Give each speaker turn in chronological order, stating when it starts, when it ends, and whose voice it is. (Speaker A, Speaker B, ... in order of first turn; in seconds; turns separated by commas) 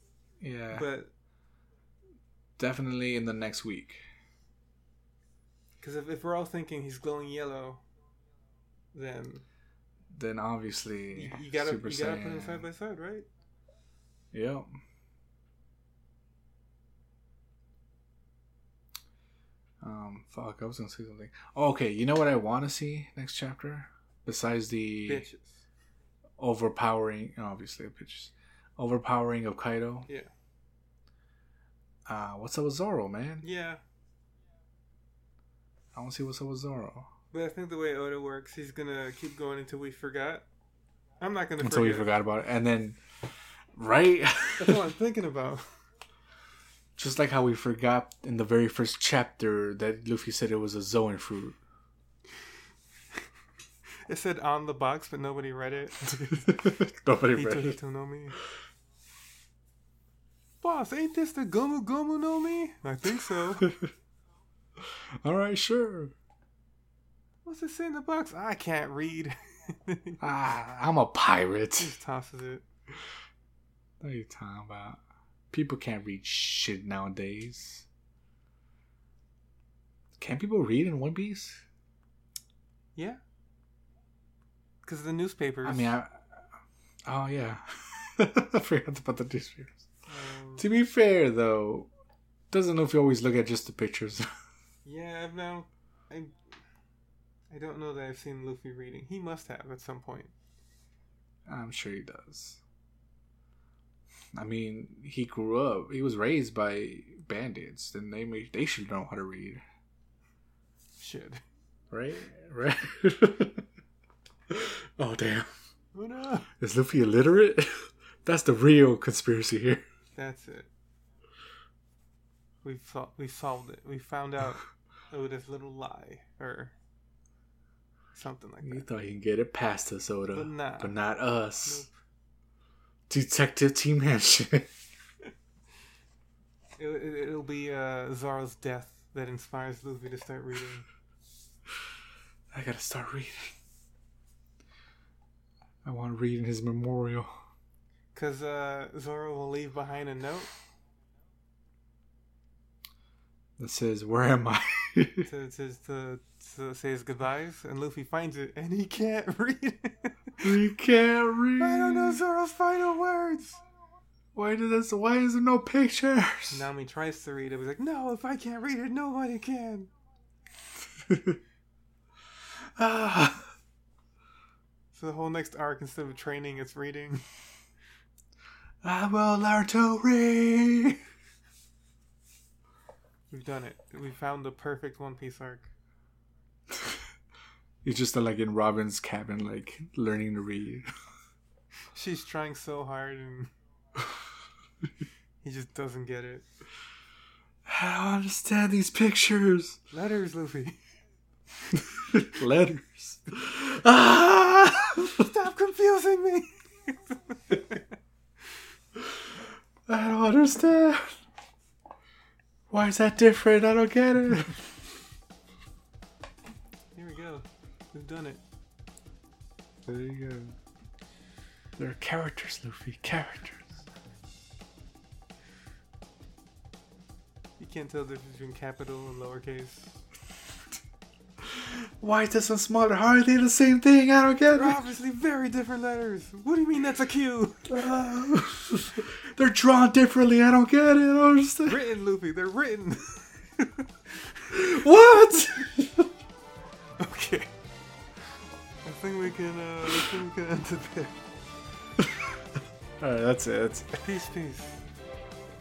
Speaker A: 0.4-0.9, Speaker B: 0.7-1.1, Speaker A: 2.6-4.0, Speaker B: 5.8-7.8, Speaker B: 8.9-9.4, Speaker A: 10.1-12.7, Speaker B: 11.1-13.3, Speaker A: 14.3-14.7, Speaker A: 19.8-25.3, Speaker B: 25.1-25.6, Speaker A: 26.4-30.1, Speaker A: 32.1-33.5, Speaker B: 33.4-33.8, Speaker A: 35.9-37.1, Speaker B: 37.3-40.5, Speaker B: 41.2-42.1, Speaker A: 41.6-43.0, Speaker A: 43.7-44.9, Speaker B: 44.6-45.7, Speaker A: 47.0-51.6, Speaker B: 54.1-56.7, Speaker A: 56.4-57.8, Speaker B: 57.3-58.4, Speaker B: 60.6-63.7, Speaker A: 63.6-63.9, Speaker A: 64.8-66.1, Speaker B: 67.5-70.3, Speaker A: 70.2-72.0, Speaker B: 71.8-72.6, Speaker A: 74.0-77.9, Speaker A: 80.2-81.6, Speaker B: 83.0-83.2, Speaker B: 84.8-86.0, Speaker A: 85.6-86.5, Speaker A: 87.1-89.9, Speaker B: 90.1-90.7, Speaker A: 90.6-91.9, Speaker A: 92.5-94.3, Speaker B: 94.8-96.3, Speaker B: 97.5-100.3, Speaker A: 101.5-102.6, Speaker A: 104.3-109.6, Speaker B: 111.0-111.4, Speaker A: 111.9-113.7, Speaker A: 114.5-115.5, Speaker B: 116.0-116.5, Speaker A: 116.5-119.8, Speaker B: 120.2-120.7, Speaker B: 122.6-126.7, Speaker B: 128.1-128.9, Speaker A: 128.6-131.9, Speaker B: 130.3-131.0, Speaker B: 131.7-132.0, Speaker A: 133.1-134.7, Speaker B: 136.8-140.9, Speaker A: 142.5-143.5, Speaker A: 145.8-147.3, Speaker B: 148.1-150.5, Speaker A: 153.6-155.3, Speaker B: 155.2-160.5, Speaker A: 160.4-162.2, Speaker B: 161.6-163.6, Speaker A: 164.3-166.7, Speaker B: 166.5-169.9, Speaker A: 171.0-171.4, Speaker A: 172.8-173.5, Speaker B: 174.9-177.2, Speaker A: 178.8-181.0, Speaker B: 183.3-185.7, Speaker A: 186.7-187.0, Speaker A: 187.8-190.9, Speaker B: 191.9-193.5, Speaker B: 195.4-196.5, Speaker A: 197.7-199.8, Speaker B: 199.9-200.8, Speaker A: 201.7-205.3, Speaker B: 205.2-207.9, Speaker A: 209.9-211.2, Speaker A: 212.7-214.7, Speaker B: 216.9-218.4, Speaker A: 219.9-220.6, Speaker A: 221.8-223.8, Speaker B: 227.6-230.0, Speaker A: 231.5-234.8, Speaker B: 234.5-237.7, Speaker A: 237.7-241.8, Speaker B: 241.7-244.6, Speaker A: 244.5-246.1, Speaker B: 247.0-247.5, Speaker B: 248.8-251.2, Speaker A: 252.0-252.3, Speaker A: 253.0-254.0, Speaker B: 254.0-254.8